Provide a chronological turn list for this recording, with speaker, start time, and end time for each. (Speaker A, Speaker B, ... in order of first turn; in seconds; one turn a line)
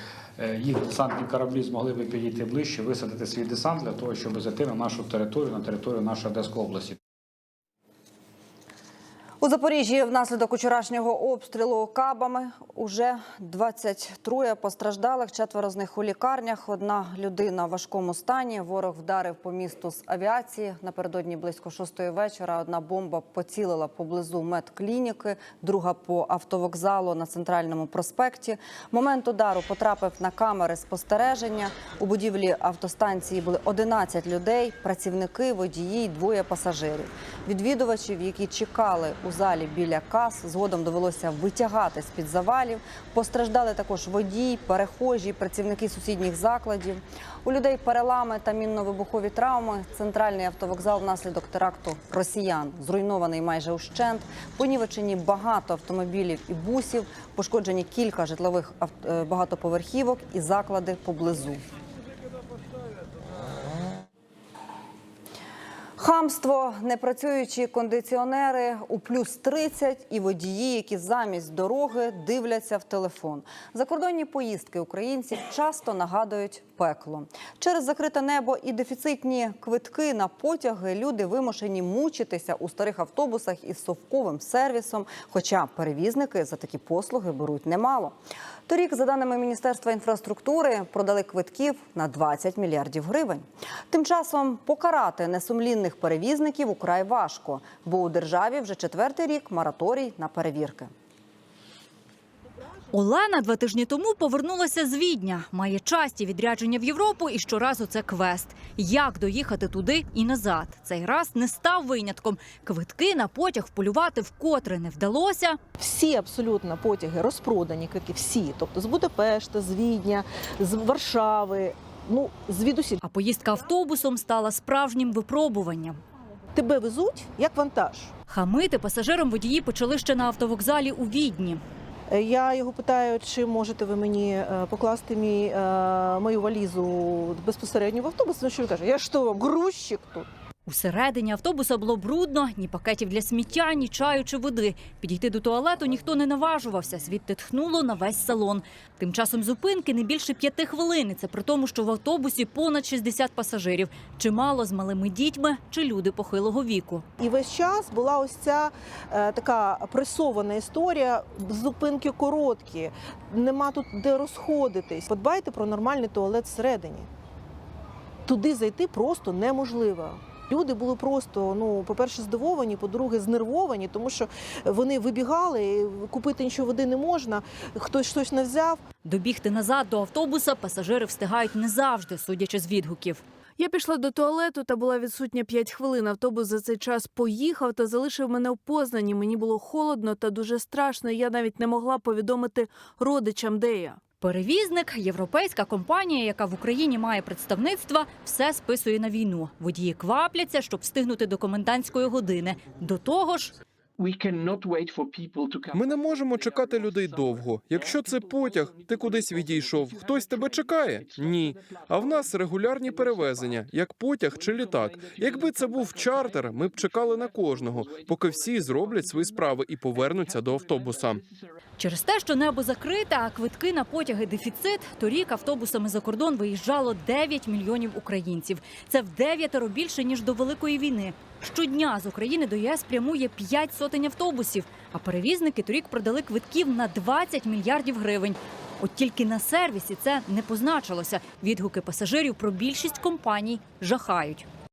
Speaker A: 0.4-7.0
Speaker B: 9.4-61.6
Speaker B: 66.0-88.2
Speaker B: 88.7-100.9
Speaker C: 102.9-115.6
Speaker D: 115.8-123.0
Speaker C: 123.0-126.0
Speaker D: 126.5-128.1
Speaker C: 128.3-131.6
Speaker D: 132.1-140.3
Speaker C: 140.7-157.1
Speaker D: 157.2-167.1
Speaker D: 168.2-178.8
Speaker C: 179.0-183.2
Speaker E: 183.6-194.0
Speaker C: 194.2-203.6
Speaker F: 205.7-221.2
Speaker C: 221.8-244.5